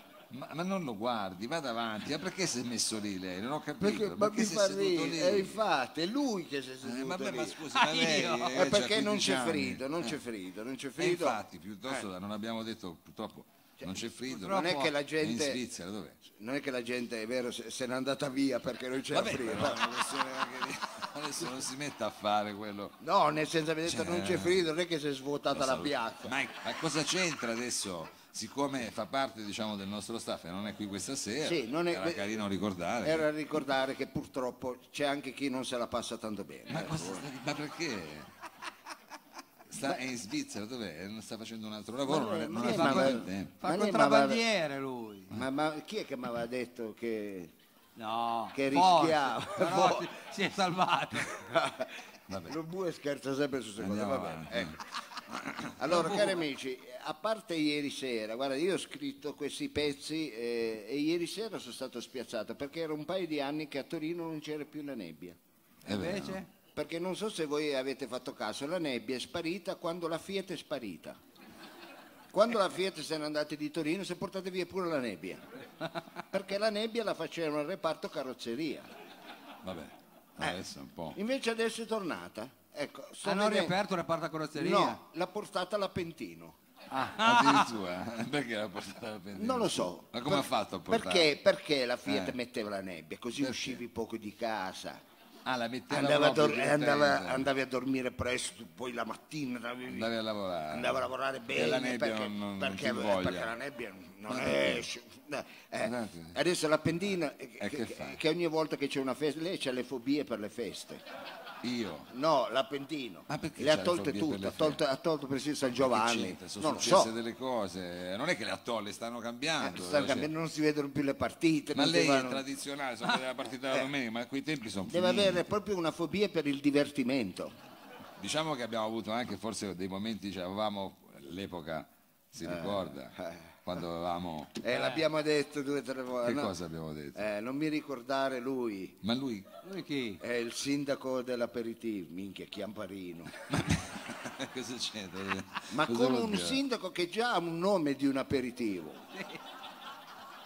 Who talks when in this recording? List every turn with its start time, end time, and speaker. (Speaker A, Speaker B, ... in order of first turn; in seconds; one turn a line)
Speaker A: 0.3-5.6
Speaker B: 3.8-7.6
Speaker A: 6.8-10.2
Speaker C: 7.7-8.7
Speaker B: 8.5-12.1
Speaker A: 11.0-16.2
Speaker B: 13.8-15.6
Speaker C: 14.3-14.9
Speaker B: 16.3-19.9
Speaker A: 19.1-23.0
Speaker B: 23.0-26.3
Speaker A: 23.9-24.6
Speaker A: 25.5-33.2
Speaker B: 31.4-32.3
Speaker B: 33.0-37.2
Speaker A: 36.7-38.3
Speaker A: 39.7-43.6
Speaker B: 42.0-44.4
Speaker C: 42.6-45.3
Speaker B: 45.3-47.5
Speaker C: 48.0-51.3
Speaker B: 48.5-50.1
Speaker B: 51.2-54.8
Speaker A: 52.3-52.6
Speaker A: 53.8-55.8
Speaker B: 55.8-65.4
Speaker C: 55.9-56.4
Speaker A: 65.8-66.4
Speaker C: 65.9-66.5
Speaker B: 66.8-71.2
Speaker B: 72.3-75.5
Speaker B: 76.3-78.9
Speaker A: 79.6-81.2
Speaker B: 81.1-83.8
Speaker C: 83.2-85.0
Speaker B: 84.5-86.6
Speaker C: 86.9-87.7
Speaker A: 87.0-91.3
Speaker B: 89.3-95.0
Speaker A: 92.1-92.3
Speaker A: 93.4-93.8
Speaker A: 95.5-97.5
Speaker B: 95.9-100.1
Speaker A: 99.9-103.5
Speaker B: 100.7-111.0
Speaker A: 104.3-104.9
Speaker A: 105.8-106.4
Speaker A: 107.6-108.2
Speaker A: 111.6-112.1
Speaker B: 112.1-117.1
Speaker A: 113.3-114.8
Speaker A: 115.8-120.3
Speaker B: 119.6-122.4
Speaker A: 121.7-125.4
Speaker B: 124.9-127.5
Speaker A: 128.2-134.6
Speaker B: 132.4-133.4
Speaker B: 134.6-136.5
Speaker C: 134.7-135.0
Speaker A: 136.2-137.2
Speaker B: 137.2-139.0
Speaker A: 139.0-139.5
Speaker C: 139.6-140.2
Speaker B: 140.2-143.3
Speaker A: 143.5-146.6
Speaker B: 145.7-149.1